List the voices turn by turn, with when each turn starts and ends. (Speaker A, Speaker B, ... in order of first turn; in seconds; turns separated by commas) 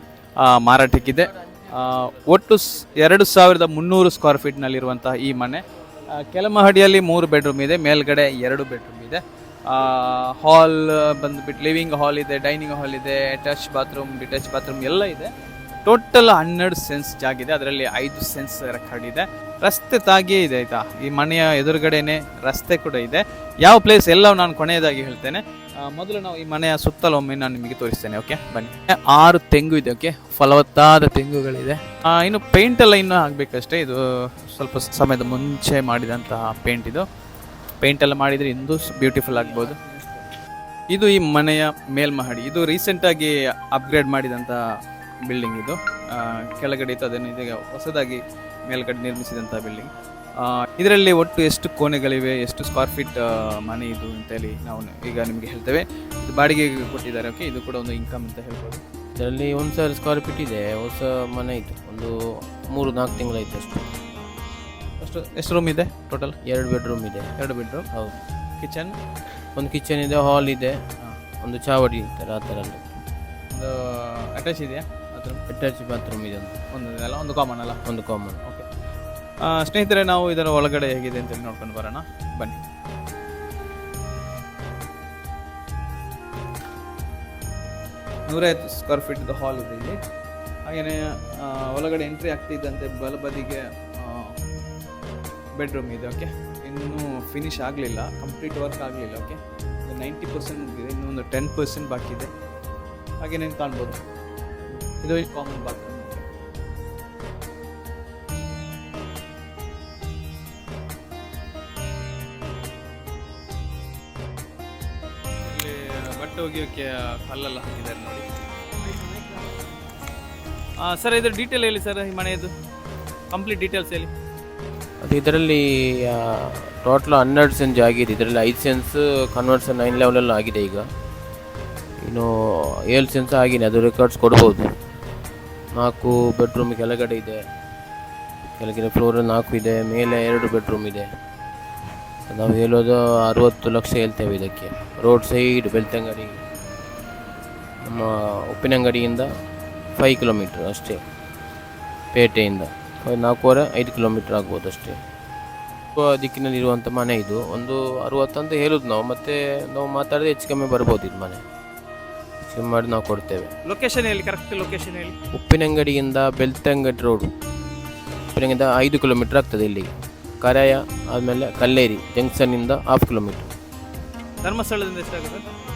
Speaker A: 0.4-5.6, Speaker A: 6.1-15.3, Speaker A: 15.9-34.0, Speaker A: 34.5-37.0, Speaker A: 37.8-39.8, Speaker B: 39.0-40.2, Speaker A: 40.9-44.6, Speaker A: 45.3-49.9, Speaker A: 50.4-58.8, Speaker B: 59.2-62.1, Speaker B: 62.7-63.9, Speaker A: 65.0-66.3, Speaker B: 66.5-67.3, Speaker A: 67.4-67.9, Speaker B: 67.9-68.2, Speaker A: 68.6-69.0, Speaker B: 69.6-70.8, Speaker B: 71.4-72.9, Speaker A: 73.5-75.4, Speaker B: 75.5-76.6, Speaker A: 76.7-77.8, Speaker B: 77.9-78.4, Speaker A: 79.4-82.6, Speaker A: 88.3-90.0, Speaker A: 90.7-94.3, Speaker A: 95.6-102.3, Speaker A: 103.2-104.0, Speaker A: 104.9-106.3, Speaker A: 115.5-118.3, Speaker A: 118.9-119.4, Speaker A: 120.8-122.5, Speaker A: 123.3-124.1, Speaker B: 125.0-130.9, Speaker B: 132.0-134.7, Speaker B: 135.8-137.4, Speaker B: 138.6-141.1, Speaker B: 142.3-146.3, Speaker B: 147.9-149.3, Speaker B: 150.0-151.0, Speaker B: 152.1-155.0, Speaker B: 156.0-161.4, Speaker B: 162.5-163.5, Speaker A: 163.7-165.1, Speaker B: 165.3-167.3, Speaker B: 168.3-169.9, Speaker B: 170.4-173.5, Speaker A: 174.4-175.4